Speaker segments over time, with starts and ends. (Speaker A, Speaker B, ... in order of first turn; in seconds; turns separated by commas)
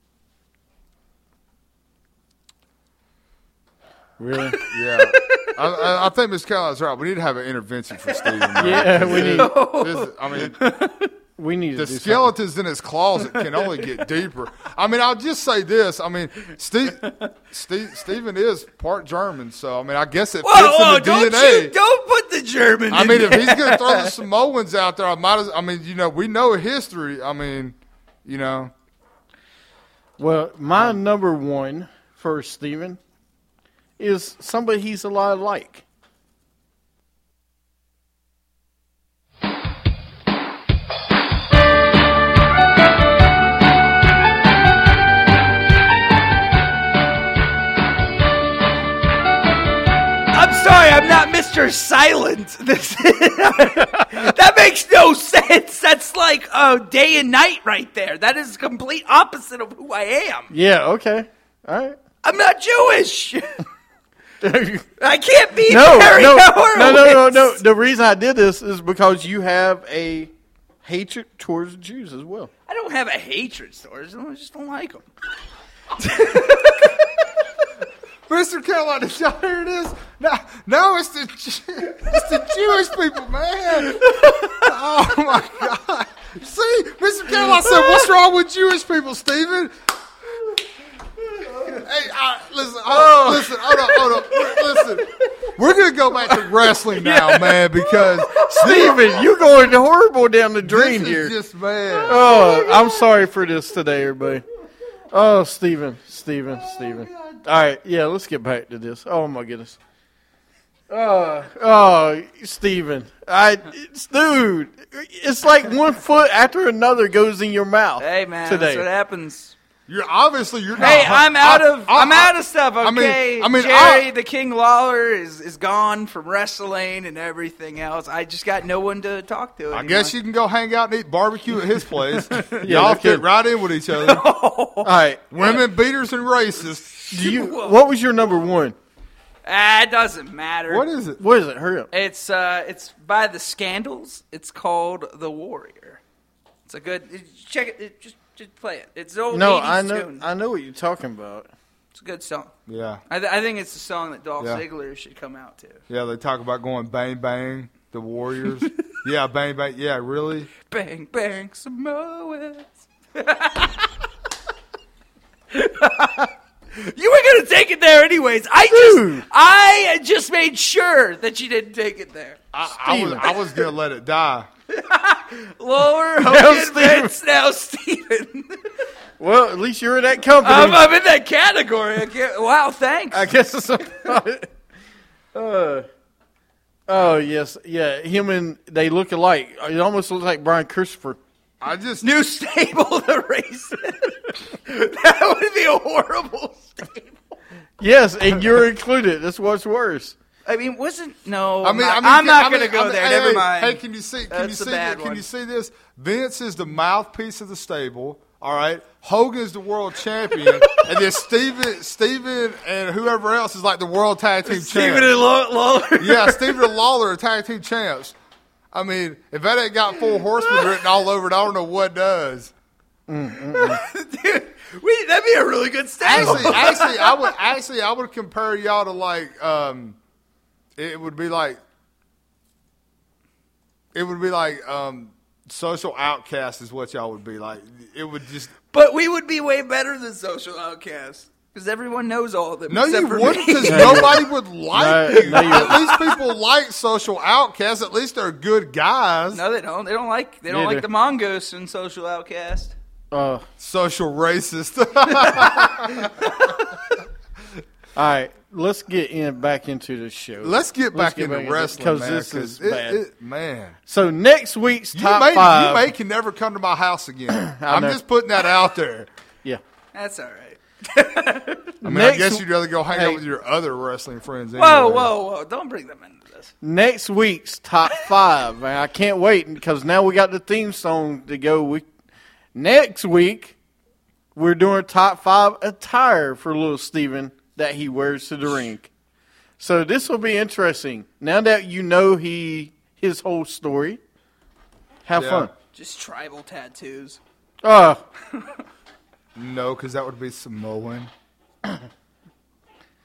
Speaker A: 4.2-4.6, Speaker B: 4.6-6.0, Speaker C: 4.7-10.6, Speaker B: 8.1-11.1, Speaker A: 8.6-9.5, Speaker A: 11.4-12.3, Speaker C: 11.8-21.8, Speaker B: 13.3-14.0, Speaker B: 17.0-17.3, Speaker B: 20.4-24.1, Speaker C: 22.9-28.7, Speaker A: 30.2-33.0, Speaker A: 34.0-35.8, Speaker B: 50.3-60.5, Speaker A: 60.5-62.0, Speaker B: 62.2-63.6, Speaker A: 64.4-64.9, Speaker B: 65.0-67.6, Speaker A: 65.7-70.3, Speaker A: 70.8-72.5, Speaker B: 72.7-75.1, Speaker B: 76.0-77.1, Speaker C: 78.3-89.7, Speaker B: 84.0-84.7, Speaker B: 87.3-88.1, Speaker C: 91.6-99.0, Speaker A: 92.9-93.5, Speaker B: 93.8-95.3, Speaker B: 96.3-99.2, Speaker A: 98.6-101.3, Speaker C: 100.6-102.3, Speaker B: 102.1-103.0, Speaker A: 102.1-104.5, Speaker A: 105.1-109.8, Speaker A: 110.9-118.9, Speaker B: 118.0-119.5, Speaker C: 119.9-124.1, Speaker B: 120.8-130.1, Speaker C: 129.7-134.2, Speaker B: 131.7-132.9, Speaker A: 132.6-133.2, Speaker B: 133.9-134.9, Speaker A: 134.8-135.6, Speaker C: 135.3-137.0, Speaker B: 137.0-137.8, Speaker A: 137.1-138.8, Speaker B: 139.4-140.9, Speaker C: 140.7-141.2, Speaker A: 141.2-141.9, Speaker B: 141.9-146.0, Speaker B: 146.7-150.2, Speaker A: 149.3-151.5, Speaker B: 151.9-152.6, Speaker C: 152.7-153.0, Speaker B: 153.1-155.8, Speaker C: 155.9-160.5, Speaker B: 160.7-163.9, Speaker B: 165.5-172.4, Speaker A: 168.7-169.2, Speaker C: 172.5-174.5, Speaker A: 172.7-173.3, Speaker B: 174.7-178.7, Speaker A: 176.2-177.1, Speaker A: 179.2-180.9, Speaker B: 180.4-183.3, Speaker A: 183.1-184.5, Speaker A: 185.3-185.9, Speaker A: 186.9-191.2, Speaker C: 191.6-192.1, Speaker B: 192.0-197.2, Speaker A: 197.8-200.2, Speaker B: 200.5-205.2, Speaker C: 201.6-215.2, Speaker B: 210.6-210.9, Speaker B: 214.5-216.7, Speaker C: 216.0-218.2, Speaker C: 218.7-222.5, Speaker B: 220.2-220.9, Speaker A: 223.1-223.8, Speaker B: 223.5-227.3, Speaker C: 226.0-230.0, Speaker A: 226.2-226.5, Speaker C: 230.8-231.6, Speaker C: 233.9-238.5, Speaker B: 238.7-244.3, Speaker C: 242.7-249.4, Speaker A: 243.7-245.9, Speaker B: 245.1-246.2, Speaker B: 249.3-252.8, Speaker A: 250.5-250.9, Speaker A: 253.1-253.5, Speaker C: 253.6-256.3, Speaker B: 256.2-256.7, Speaker A: 258.0-263.0, Speaker C: 260.4-263.8, Speaker A: 263.9-265.9, Speaker C: 264.9-269.1, Speaker A: 267.3-268.0, Speaker B: 269.9-271.8, Speaker A: 271.8-273.2, Speaker C: 271.8-275.1, Speaker B: 274.6-276.5, Speaker A: 276.6-281.9, Speaker A: 282.6-283.6, Speaker A: 284.4-288.9, Speaker A: 289.6-294.0, Speaker A: 295.1-295.5, Speaker C: 295.2-295.5, Speaker B: 295.7-297.2, Speaker A: 297.6-298.0, Speaker C: 299.4-301.1